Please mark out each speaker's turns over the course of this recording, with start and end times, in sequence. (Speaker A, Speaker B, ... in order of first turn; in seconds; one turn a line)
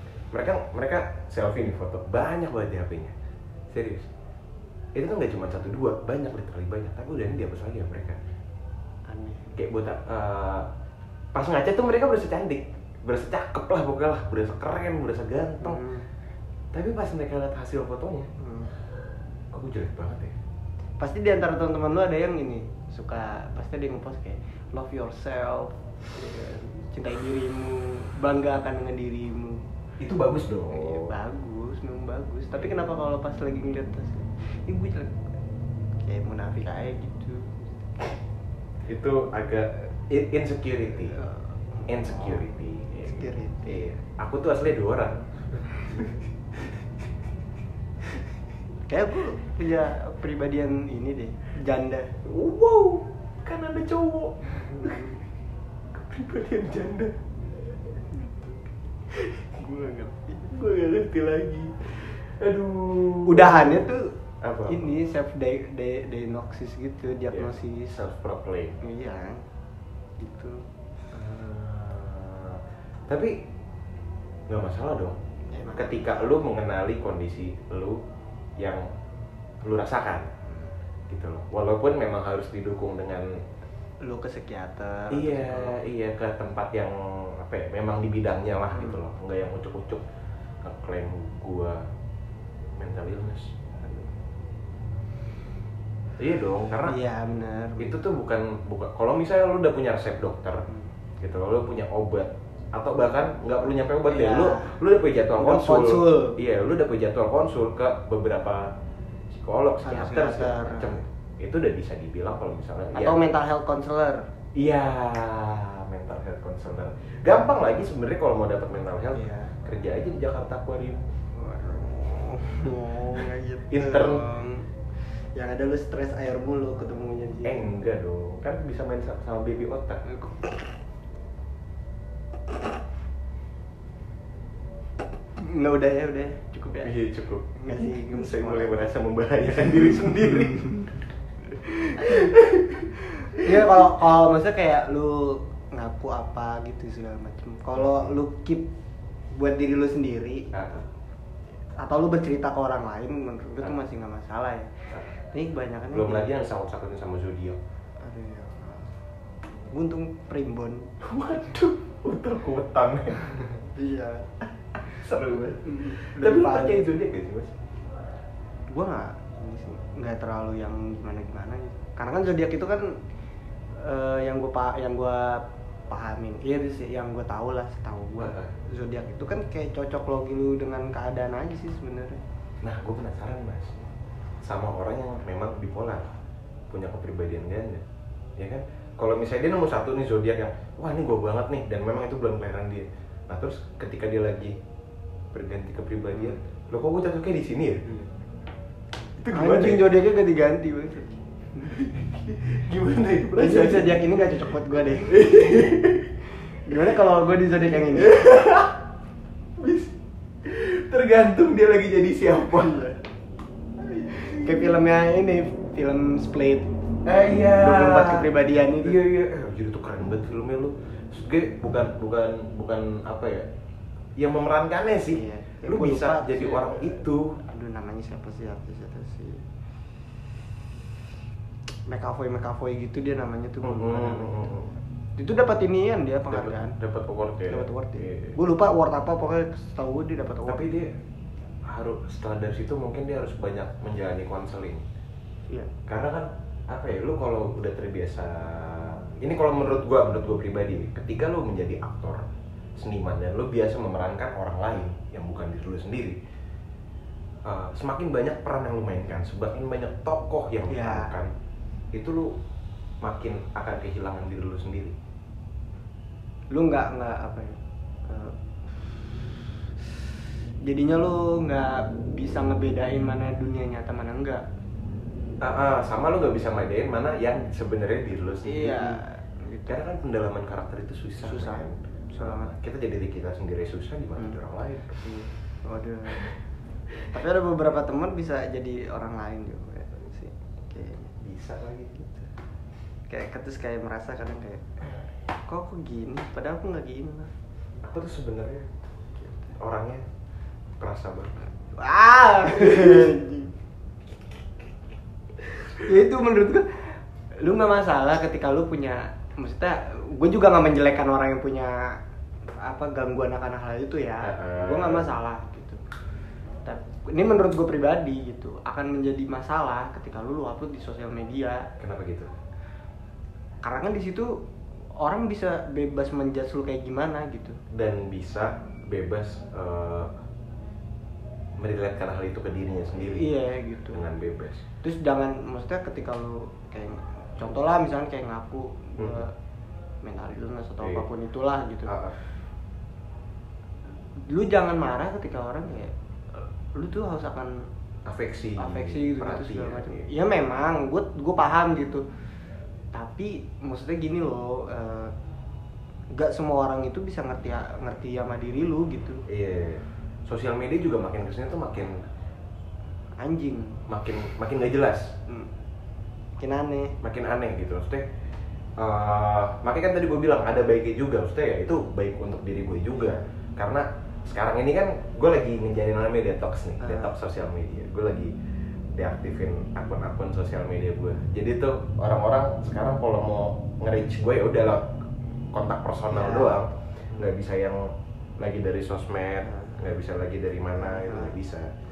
Speaker A: 0.3-3.1
Speaker A: 3.7-4.1
Speaker A: 4.9-8.2
Speaker B: 9.1-9.5
Speaker A: 9.6-10.7
Speaker A: 11.3-15.8
Speaker B: 15.6-16.0
Speaker A: 16.7-18.3
Speaker B: 18.4-18.7
Speaker A: 19.5-20.3
Speaker B: 21.0-29.6
Speaker A: 30.0-31.1
Speaker B: 30.7-35.1
Speaker B: 36.0-37.8
Speaker A: 38.9-41.2
Speaker B: 41.1-42.4
Speaker A: 41.9-46.8
Speaker B: 43.0-43.9
Speaker B: 45.9-46.1
Speaker B: 48.9-52.1
Speaker A: 52.2-55.2
Speaker B: 54.6-55.1
Speaker A: 55.9-57.2
Speaker A: 59.1-63.9
Speaker B: 63.2-64.1
Speaker A: 64.4-65.0
Speaker B: 64.7-67.9
Speaker A: 67.3-68.8
Speaker B: 68.8-69.4
Speaker B: 70.2-70.6
Speaker A: 71.1-73.4
Speaker A: 74.5-75.2
Speaker B: 75.5-76.3
Speaker A: 75.7-78.0
Speaker A: 78.6-78.9
Speaker A: 79.6-80.3
Speaker A: 81.1-83.4
Speaker B: 84.0-85.8
Speaker A: 85.1-90.0
Speaker B: 88.7-89.0
Speaker A: 90.6-91.8
Speaker A: 92.8-93.5
Speaker A: 96.2-97.0
Speaker B: 96.8-98.0
Speaker A: 97.8-100.6
Speaker A: 101.2-108.7
Speaker B: 104.1-104.8
Speaker B: 105.4-106.3
Speaker A: 109.3-113.2
Speaker B: 109.8-111.0
Speaker B: 112.9-114.2
Speaker A: 114.5-121.0
Speaker B: 119.1-119.5
Speaker B: 121.3-124.7
Speaker A: 123.7-124.3
Speaker B: 125.3-127.6
Speaker A: 127.4-130.0
Speaker B: 135.4-136.9
Speaker A: 136.8-140.9
Speaker B: 137.5-138.9
Speaker A: 141.6-143.9
Speaker B: 142.0-142.3
Speaker B: 143.4-148.7
Speaker A: 147.7-148.2
Speaker B: 149.3-150.8
Speaker A: 150.5-150.8
Speaker B: 151.8-154.7
Speaker A: 154.9-155.1
Speaker B: 155.3-156.3
Speaker A: 155.9-157.6
Speaker B: 158.0-158.9
Speaker B: 159.7-160.9
Speaker A: 161.0-163.4
Speaker B: 163.6-164.3
Speaker A: 164.8-167.6
Speaker B: 165.6-166.9
Speaker B: 168.7-172.9
Speaker B: 173.8-182.2
Speaker A: 178.2-178.5
Speaker A: 182.6-183.8
Speaker A: 184.4-186.1
Speaker A: 186.7-187.8
Speaker A: 188.4-194.6
Speaker A: 195.3-197.9
Speaker A: 199.2-199.9
Speaker B: 199.3-201.7
Speaker A: 201.7-204.0
Speaker B: 203.4-205.3
Speaker A: 205.1-206.2
Speaker B: 206.7-208.2
Speaker A: 207.9-208.8
Speaker A: 209.6-212.9
Speaker B: 212.6-213.0
Speaker A: 213.8-214.6
Speaker B: 214.1-216.7
Speaker A: 217.0-223.5
Speaker B: 217.5-219.0
Speaker A: 224.2-227.4
Speaker B: 225.1-229.4
Speaker B: 231.9-234.4
Speaker A: 233.6-234.7
Speaker B: 235.2-236.8
Speaker A: 236.3-238.4
Speaker B: 237.5-240.7
Speaker A: 240.5-240.9
Speaker A: 241.7-244.8
Speaker A: 245.9-256.2
Speaker A: 257.4-261.3
Speaker B: 260.7-261.1
Speaker A: 261.9-262.4
Speaker A: 263.0-264.9
Speaker B: 266.5-268.3
Speaker B: 270.6-274.4
Speaker A: 275.4-279.0
Speaker B: 278.4-279.8
Speaker A: 279.7-285.0
Speaker B: 281.2-282.5
Speaker B: 285.0-286.2
Speaker B: 287.1-291.1
Speaker A: 291.2-292.3
Speaker B: 293.1-294.6
Speaker B: 295.5-297.3
Speaker A: 297.8-298.7
Speaker B: 299.2-299.5
Speaker A: 299.6-300.0
Speaker A: 300.8-301.3
Speaker B: 301.8-303.5
Speaker A: 302.5-303.2
Speaker B: 305.8-306.8
Speaker B: 307.4-312.0
Speaker B: 312.6-315.8
Speaker A: 314.2-315.1
Speaker B: 316.6-321.7
Speaker A: 321.8-322.3
Speaker B: 323.6-324.4
Speaker B: 325.0-327.6
Speaker A: 327.7-330.1
Speaker A: 331.6-333.3
Speaker B: 333.0-334.0
Speaker A: 333.9-334.6
Speaker B: 334.8-339.3
Speaker A: 339.0-339.2
Speaker B: 340.0-341.9
Speaker A: 341.9-342.1
Speaker B: 344.2-347.6
Speaker A: 348.1-350.1
Speaker B: 348.6-352.0
Speaker B: 352.9-355.1
Speaker B: 356.1-359.2
Speaker A: 359.3-362.0
Speaker B: 363.2-363.8
Speaker A: 363.9-365.1
Speaker B: 366.4-366.9
Speaker A: 367.0-368.1
Speaker A: 368.8-378.3
Speaker B: 372.9-373.2
Speaker B: 376.8-377.1
Speaker A: 378.9-384.9
Speaker A: 385.5-391.7
Speaker B: 386.1-386.6
Speaker B: 389.5-389.8
Speaker B: 390.8-391.3